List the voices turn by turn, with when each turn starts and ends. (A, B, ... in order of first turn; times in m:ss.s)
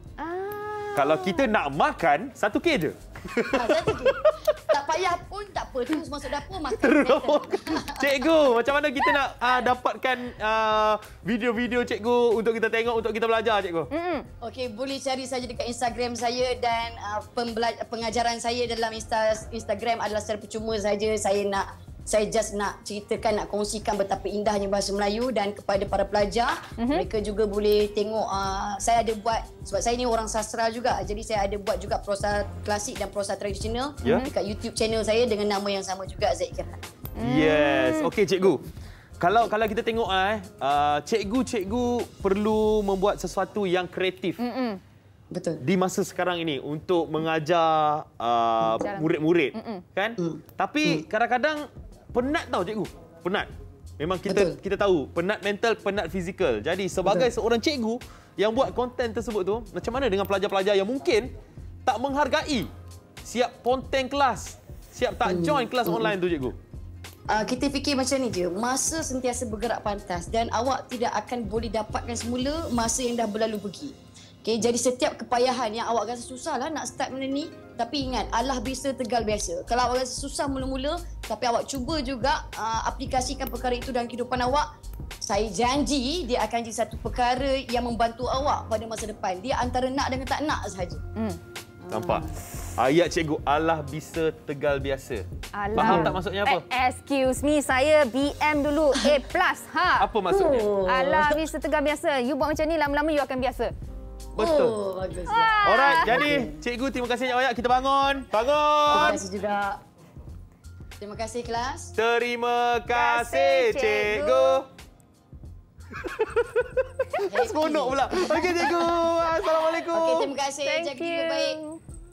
0:00.2-0:01.5 A
0:00.9-0:04.7 B
0:03.5-0:08.3 C
0:06.7-0:13.9 B
0:13.9-0:14.3 A
0:14.4-0:36.8 C
0:26.8-0:27.0 A
0:34.0-0:34.3 A
0:37.2-0:38.1 A
0:37.2-0:38.6 B
0:39.2-0:44.4 B
0:44.4-0:44.8 A
0:45.3-0:45.6 C
0:45.6-1:01.3 B
0:48.8-0:49.8 A
0:50.2-0:51.0 C
0:54.3-0:54.6 C
0:57.0-0:57.3 C
1:01.8-1:02.7 B
1:03.2-1:06.6 B
1:05.2-1:06.1 C
1:07.3-1:24.7 C
1:25.2-1:31.0 C
1:31.8-1:32.4 C
1:31.9-1:36.6 B
1:35.5-1:43.7 A
1:35.8-1:36.2 C
1:40.0-1:40.7 B
1:40.3-1:41.4 C
1:44.3-1:44.8 B
1:44.3-1:46.6 C
1:45.3-1:46.3 A
1:45.6-1:49.2 B
1:48.9-1:49.8 C
1:51.0-1:51.9 C
1:51.9-1:54.7 B
1:52.9-1:54.6 A
1:55.9-2:00.3 B
1:57.2-1:58.7 C
1:58.1-1:59.8 A
1:59.9-2:01.6 C
2:00.6-2:01.8 A